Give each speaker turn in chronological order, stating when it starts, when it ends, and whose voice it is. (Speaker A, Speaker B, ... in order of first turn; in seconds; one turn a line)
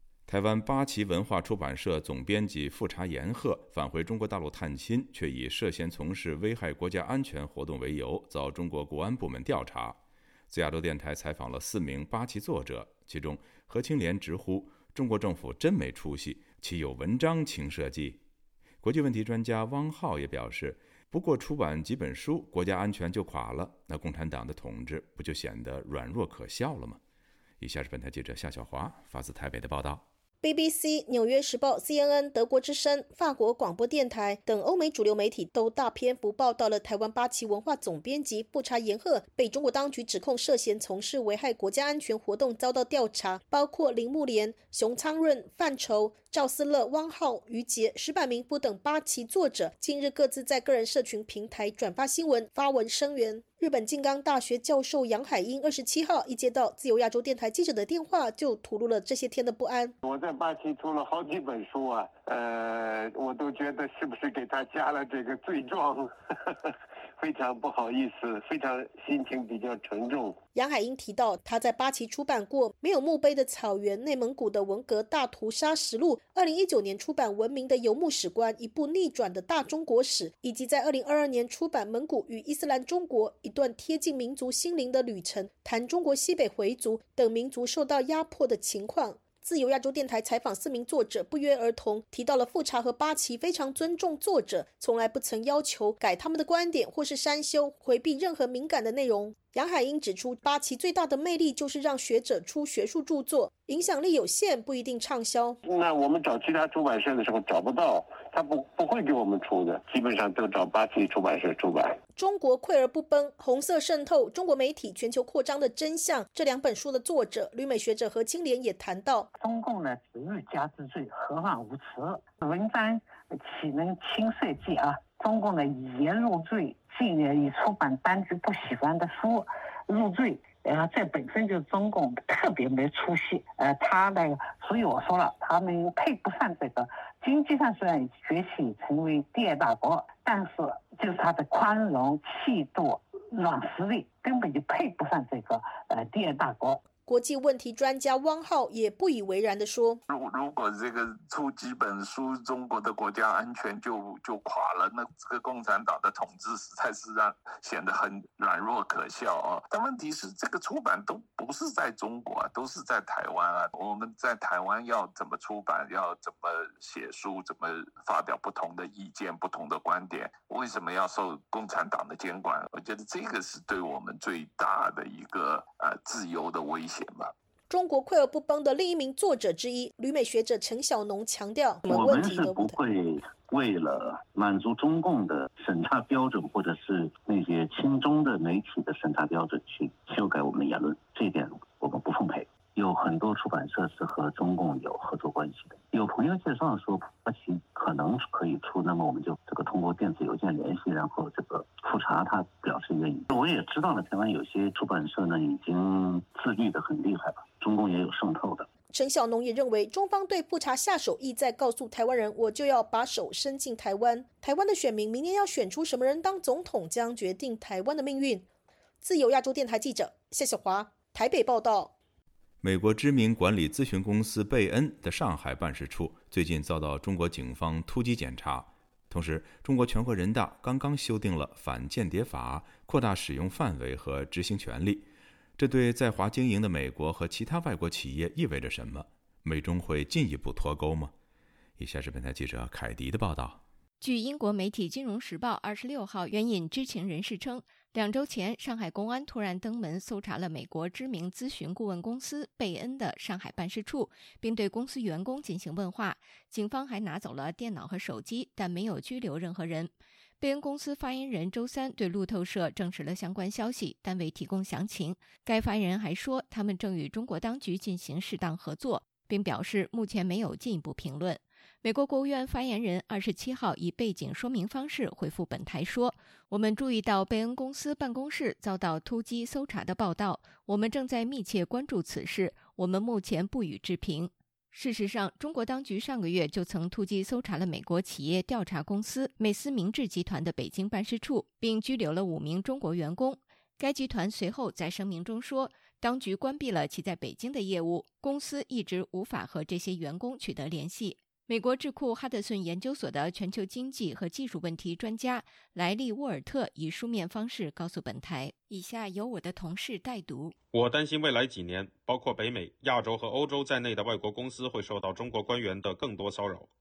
Speaker A: 0.3-10.0
Speaker A: 10.5-18.2
Speaker A: 18.8-27.0
Speaker A: 27.6-30.1
Speaker B: 30.4-59.9
Speaker C: 60.0-70.4
Speaker B: 70.5-105.6
Speaker C: 105.6-112.0
Speaker B: 112.2-119.3
Speaker D: 119.3-146.8
Speaker B: 147.1-150.0
Speaker E: 150.1-177.3
Speaker B: 177.7-182.8
Speaker F: 181.8-208.7
Speaker B: 208.9-218.5
Speaker B: 219.0-221.9
Speaker A: 222.6-241.1
Speaker A: 241.8-243.6
Speaker G: 244.0-310.5
Speaker H: 310.7-316.7